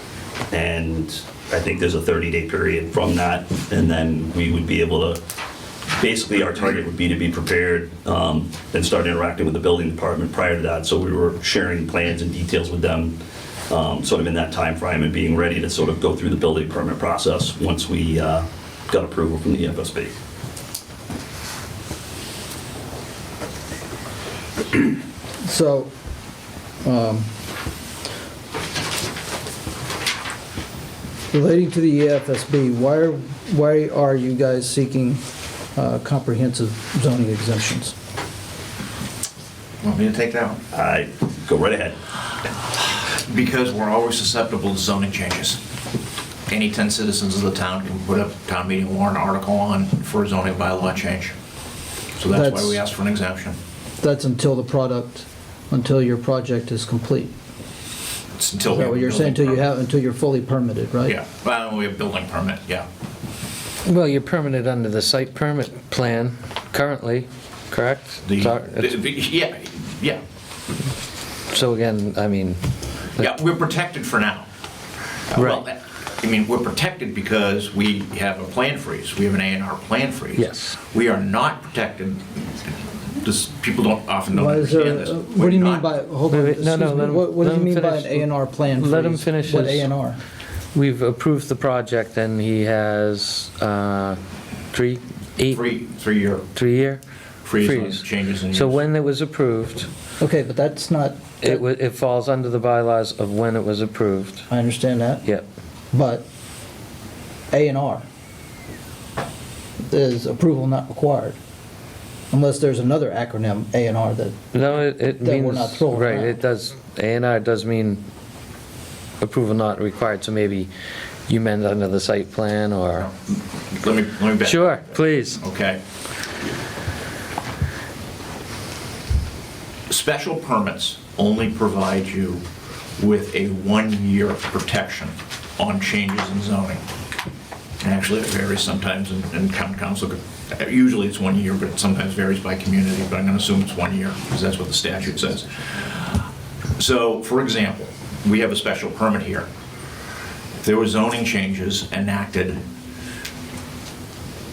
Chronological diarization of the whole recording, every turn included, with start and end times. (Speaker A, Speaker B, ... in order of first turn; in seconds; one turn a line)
Speaker A: 0.5-5.2
Speaker A: 6.0-13.1
Speaker A: 13.7-20.1
Speaker B: 25.4-25.9
Speaker B: 26.8-27.3
Speaker B: 31.3-35.2
Speaker B: 35.7-37.9
Speaker C: 39.8-40.6
Speaker A: 40.7-41.9
Speaker C: 43.1-45.6
Speaker C: 46.5-51.4
Speaker C: 52.1-53.6
Speaker B: 52.3-52.8
Speaker B: 54.0-57.3
Speaker C: 58.3-59.7
Speaker B: 58.7-61.2
Speaker C: 61.0-62.9
Speaker D: 63.8-69.0
Speaker C: 68.2-70.2
Speaker D: 71.5-72.6
Speaker C: 73.2-74.5
Speaker C: 75.3-85.9
Speaker D: 75.3-75.6
Speaker D: 80.3-80.8
Speaker B: 84.3-90.2
Speaker D: 86.3-89.9
Speaker D: 90.7-94.2
Speaker D: 94.7-95.6
Speaker C: 95.4-96.5
Speaker D: 96.5-97.0
Speaker C: 97.4-98.9
Speaker D: 97.6-99.9
Speaker B: 100.2-101.6
Speaker D: 101.4-104.5
Speaker B: 104.5-105.2
Speaker B: 105.9-106.2
Speaker B: 107.5-108.0
Speaker B: 109.9-111.4
Speaker B: 112.3-116.4
Speaker D: 114.5-118.0
Speaker D: 119.2-120.7
Speaker D: 121.3-123.1
Speaker C: 123.0-125.8
Speaker D: 124.4-125.4
Speaker C: 129.9-132.4
Speaker C: 133.0-136.8
Speaker C: 137.8-146.2
Speaker C: 146.8-149.5
Speaker C: 150.6-152.6